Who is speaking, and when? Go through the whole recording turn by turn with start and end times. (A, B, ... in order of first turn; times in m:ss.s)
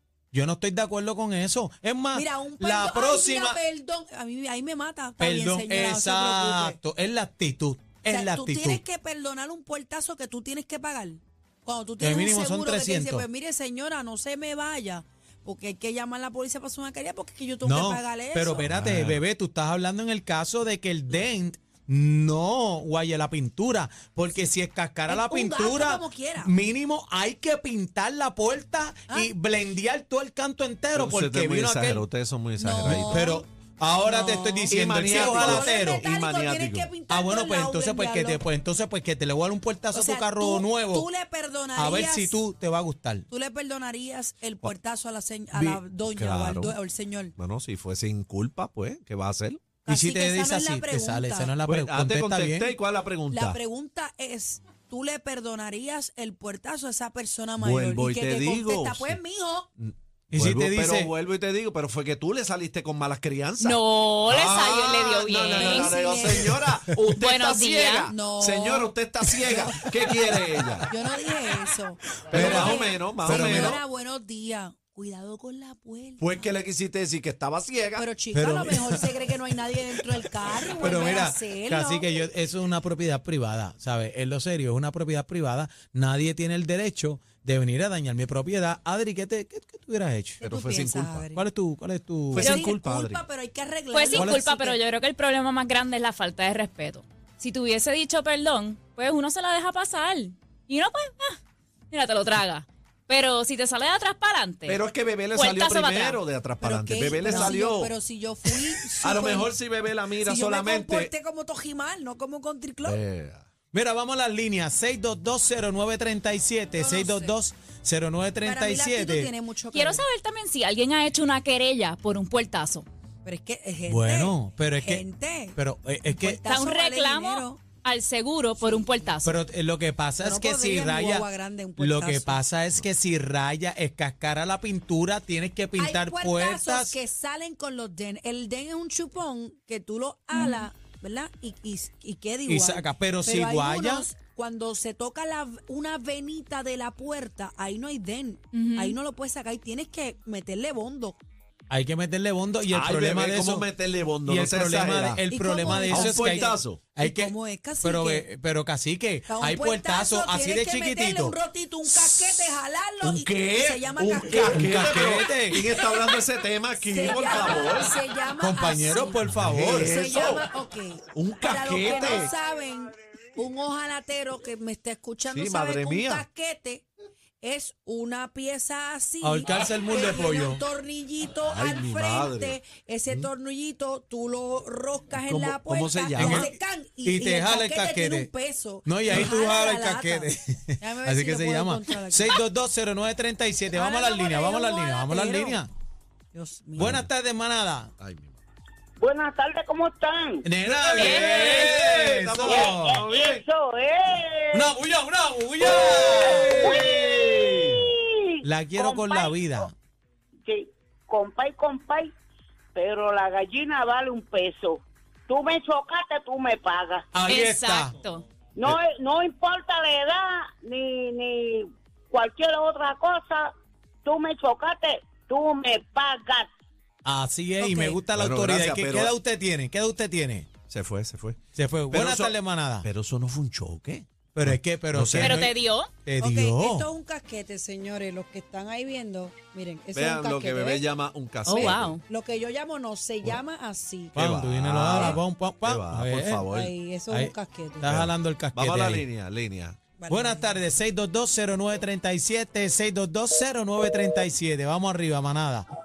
0:00.3-0:03.6 A
0:02.1-0:06.8 B
0:05.2-0:08.8 A
0:08.1-0:18.6 B
0:12.0-0:13.2 A
0:17.6-0:32.0 A
0:18.7-0:19.2 C
0:25.1-0:26.5 B
0:30.9-0:33.2 C
0:32.6-0:33.4 B
0:32.9-0:36.0 A
0:34.0-0:38.4 B
0:34.7-0:36.9 C
0:37.1-0:41.1 A
0:39.9-0:42.4 B
0:41.8-0:43.3 A
0:43.3-0:47.3 B
0:45.5-0:45.8 A
0:46.0-0:46.8 C
0:47.4-0:49.6 C
0:49.8-0:51.5 B
0:49.9-0:52.7 A
0:51.6-0:53.6 C
0:53.3-0:59.7 B
0:57.6-0:59.2 C
0:59.8-1:10.8 C
1:00.3-1:01.1 A
1:03.6-1:06.2 D
1:05.5-1:06.7 B
1:07.2-1:08.1 D
1:08.0-1:09.7 B
1:10.9-1:16.4 B
1:12.3-1:13.8 A
1:12.3-1:13.8 C
1:16.2-1:18.0 C
1:18.0-1:22.1 B
1:18.3-1:19.1 A
1:20.6-1:30.4 A
1:30.4-1:31.3 C
1:30.4-1:31.4 B
1:31.3-1:32.5 A
1:32.3-1:33.2 C
1:32.4-1:32.7 D
1:32.4-1:34.8 B
1:33.9-1:41.4 D
1:34.1-1:34.6 A
1:41.9-1:44.8 D
1:44.6-1:47.9 C
1:45.3-1:46.2 D
1:46.6-1:49.5 B
1:47.2-1:47.5 D
1:49.0-1:51.1 C
1:50.2-1:53.0 B
1:52.8-1:53.4 C
1:53.7-1:59.3 A
1:56.8-1:57.3 B
1:58.4-2:00.0 B
1:59.7-2:02.8 D
2:03.2-2:07.6 B
2:03.9-2:06.4 A
2:06.4-2:09.4 D
2:08.6-2:09.0 B
2:09.2-2:11.3 A
2:10.2-2:12.4 B
2:11.8-2:17.0 A
2:15.8-2:31.2 B
2:20.3-2:20.6 D
2:22.4-2:24.0 A
2:28.5-2:29.0 D
2:31.7-2:33.7 A
2:32.7-2:36.9 C
2:34.2-2:41.4 A
2:35.3-2:38.2 B
2:39.3-2:44.7 B
2:43.0-2:48.0 C
2:44.3-2:45.8 A
2:46.8-2:56.8 B
2:48.4-2:50.0 A
2:49.4-2:50.5 C
2:51.1-2:52.3 C
2:55.3-2:56.2 C
2:57.4-3:12.4 B
2:59.2-3:00.6 A
3:01.4-3:02.6 C
3:05.2-3:06.5 C
3:06.2-3:08.3 A
3:08.8-3:15.7 A
3:13.7-3:15.6 B
3:16.3-3:17.0 B
3:16.8-3:17.9 A
3:18.0-3:18.4 C
3:19.0-3:20.4 E
3:20.4-3:23.0 A
3:20.8-3:23.4 C
3:21.0-3:21.4 D
3:21.4-3:21.8 E
3:22.4-3:24.6 E
3:24.5-3:26.9 A
3:25.6-3:29.7 E
3:26.3-3:27.8 C
3:28.4-3:29.7 A
3:30.4-3:32.1 E
3:32.7-3:37.1 E
3:37.1-3:37.9 A
3:37.3-3:38.2 D
3:38.6-3:43.5 E
3:44.0-3:46.5 E
3:47.0-3:50.5 A
3:47.6-3:48.0 B
3:48.1-3:49.1 C
3:50.6-3:55.4 C
3:51.5-3:52.9 A
3:54.3-3:55.5 A
3:55.2-3:55.9 D
3:56.0-3:56.9 A
3:56.2-4:00.8 B
3:59.9-4:02.0 C
4:01.4-4:02.0 D
4:01.5-4:04.2 B
4:04.1-4:06.7 C
4:04.2-4:06.4 A
4:06.5-4:07.9 B
4:07.1-4:09.0 A
4:07.8-4:09.8 C
4:10.0-4:10.5 B
4:10.1-4:15.7 A